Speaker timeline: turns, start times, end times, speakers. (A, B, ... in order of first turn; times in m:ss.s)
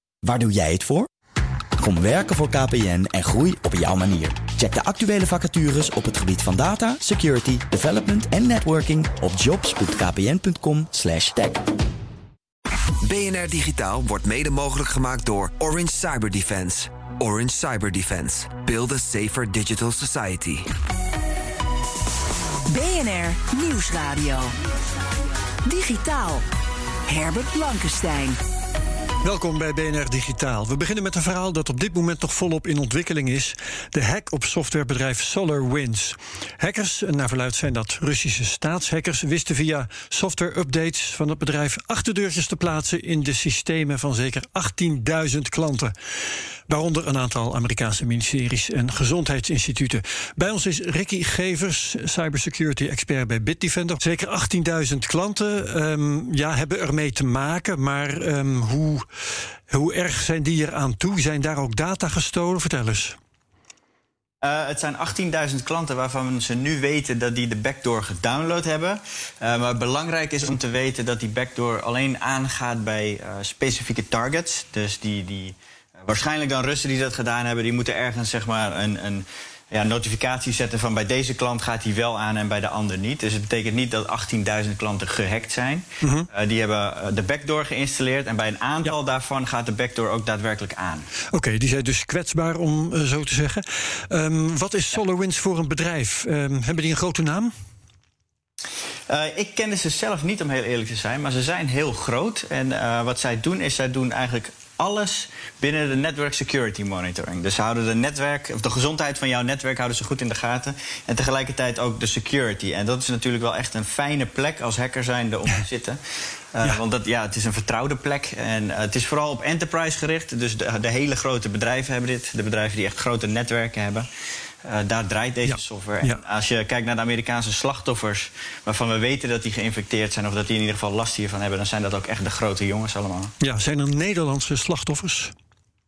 0:00.2-0:01.1 A
0:01.8-0:11.6 A
0:13.0-0:20.7 B
0:22.7-0:24.5 C
0:25.6-0:26.4 C
0:27.1-0:28.4 C
0:29.2-0:45.9 D
0:46.7-0:59.0 D
0:59.7-1:03.1 D
1:04.4-1:31.1 E
1:26.0-1:26.3 D
1:31.3-1:37.5 D
1:39.1-1:56.0 E
1:56.5-2:04.0 E
2:04.6-2:13.3 E
2:05.4-2:06.2 D
2:13.4-2:15.3 D